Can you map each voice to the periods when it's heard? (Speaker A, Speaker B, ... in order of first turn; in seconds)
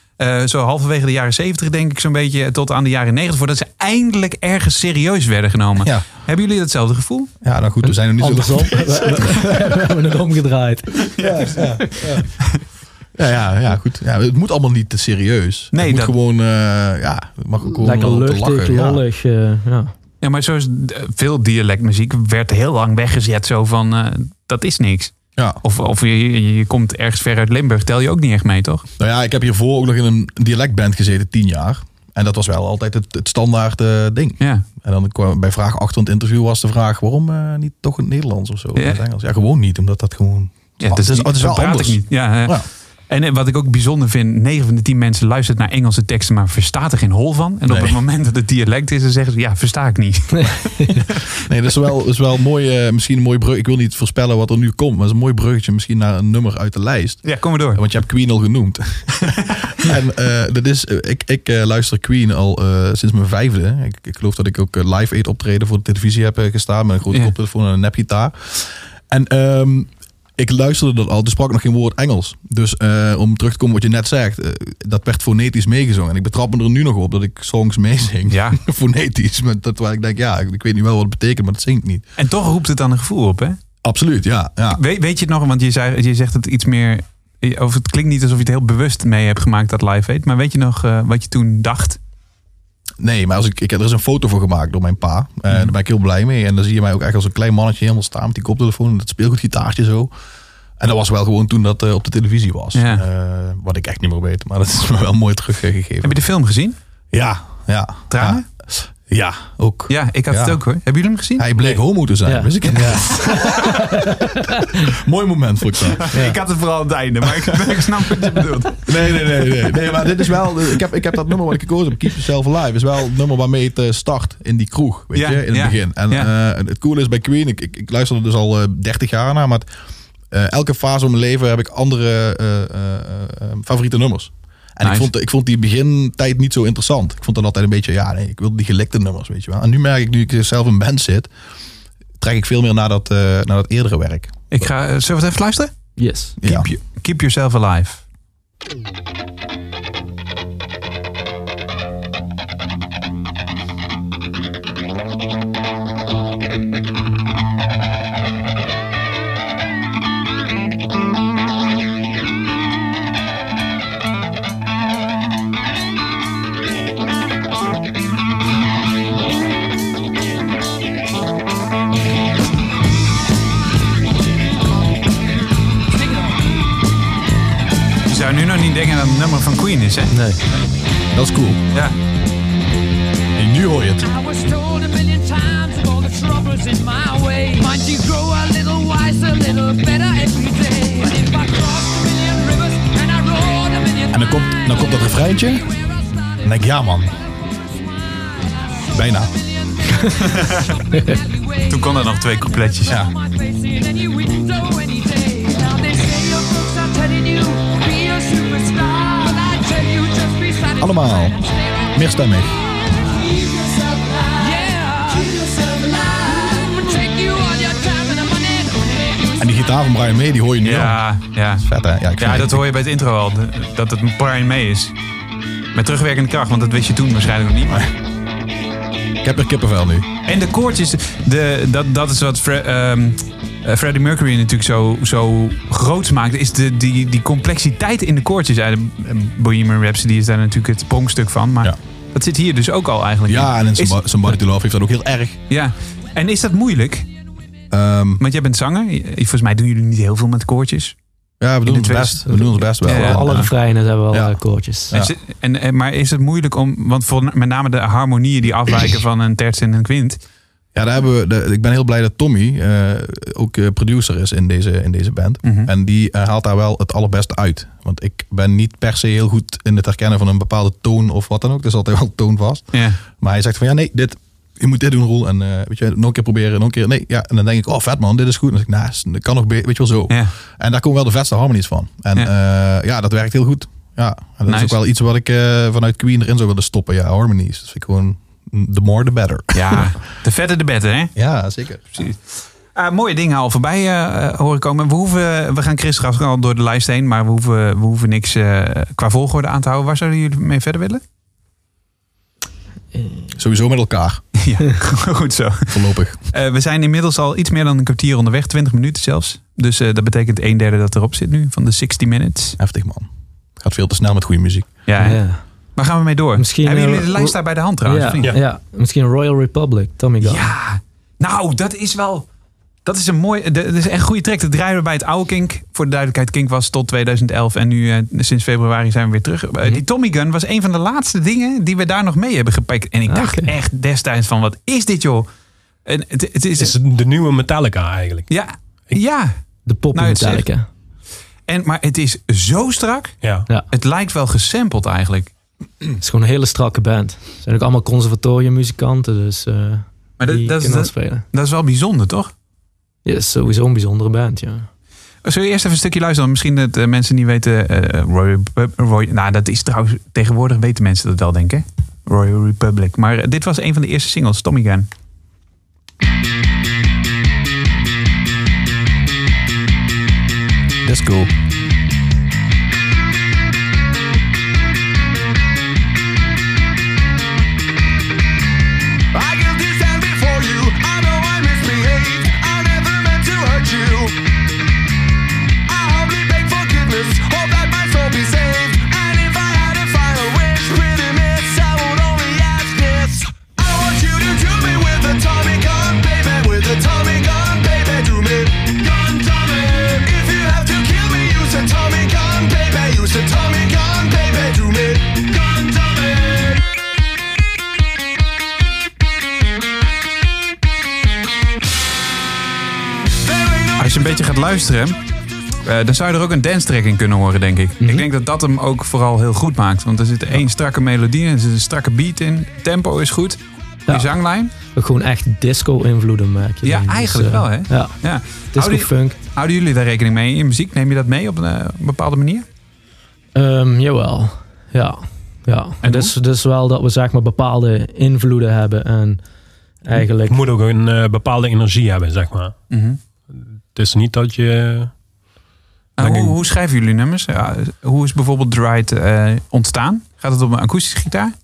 Speaker A: 0.2-7.3, 11.2-11.6, 15.7-16.1, 20.2-28.9, 38.8-39.0, 40.8-51.2, 57.2-57.8, 78.3-78.6, 82.2-83.6, 84.7-92.0, 102.7-103.0, 106.0-106.8, 108.1-108.4, 109.9-111.5, 113.3-113.6, 116.0-119.1, 125.1-126.3, 134.8-135.1, 144.5-145.8, 146.4-148.0, 178.1-180.1, 200.1-200.7, 201.7-202.9, 220.6-221.7, 222.2-224.9, 225.7-227.8, 230.2-244.3, 245.5-247.1, 248.2-250.9, 251.6-253.5, 254.9-260.2, 265.4-265.7, 272.7-273.0, 284.5-284.8, 289.5-291.1, 291.9-301.0, 304.4-312.6, 314.9-315.2, 315.8-318.3, 320.2-322.3, 322.8-335.3, 335.8-336.7, 338.3-339.3, 339.9-340.4, 341.5-343.1, 343.7-345.3, 350.2-352.3, 355.2-364.9, 413.8-415.0, 415.6-424.5, 426.6-432.4, 435.8-436.1, 442.7-443.0, 446.0-451.3
Speaker B: 7.4-9.6, 11.2-12.2, 13.2-19.0, 29.0-42.6, 47.7-48.0, 51.4-82.0, 83.8-84.8, 93.0-100.1, 100.8-106.2, 107.1-110.6, 111.4-116.1, 117.3-117.8, 118.8-129.7, 130.3-141.3, 142.2-144.3, 146.4-146.7, 181.1-181.6, 183.4-184.1, 194.1-195.7, 196.4-197.1, 198.9-199.3, 202.8-203.1, 210.8-211.4, 211.9-212.5, 219.4-221.0, 221.5-222.6, 229.2-230.1, 243.3-245.4, 247.7-248.2, 251.4-253.5, 254.1-255.1, 260.7-289.9, 291.1-292.1, 303.4-304.2, 305.7-306.2, 312.6-314.7, 370.8-371.3
Speaker C: 7.8-12.1, 17.7-19.9, 50.4-51.0, 112.2-114.8, 116.1-116.4, 145.9-146.3, 180.1-180.4, 200.9-201.2, 252.3-254.9, 315.0-315.4, 316.4-320.4, 333.1-333.5, 339.6-340.6, 346.0-351.2, 353.0-354.7, 417.8-418.0, 423.9-427.9, 428.5-429.1, 433.3-439.2, 439.8-440.4
Speaker D: 175.9-176.5, 184.0-196.5, 198.1-202.0, 202.5-219.4
Speaker E: 336.6-338.3, 343.2-343.5, 440.2-442.6, 443.7-444.9, 446.0-446.4
Speaker F: 379.1-384.2, 385.7-406.6, 413.3-413.8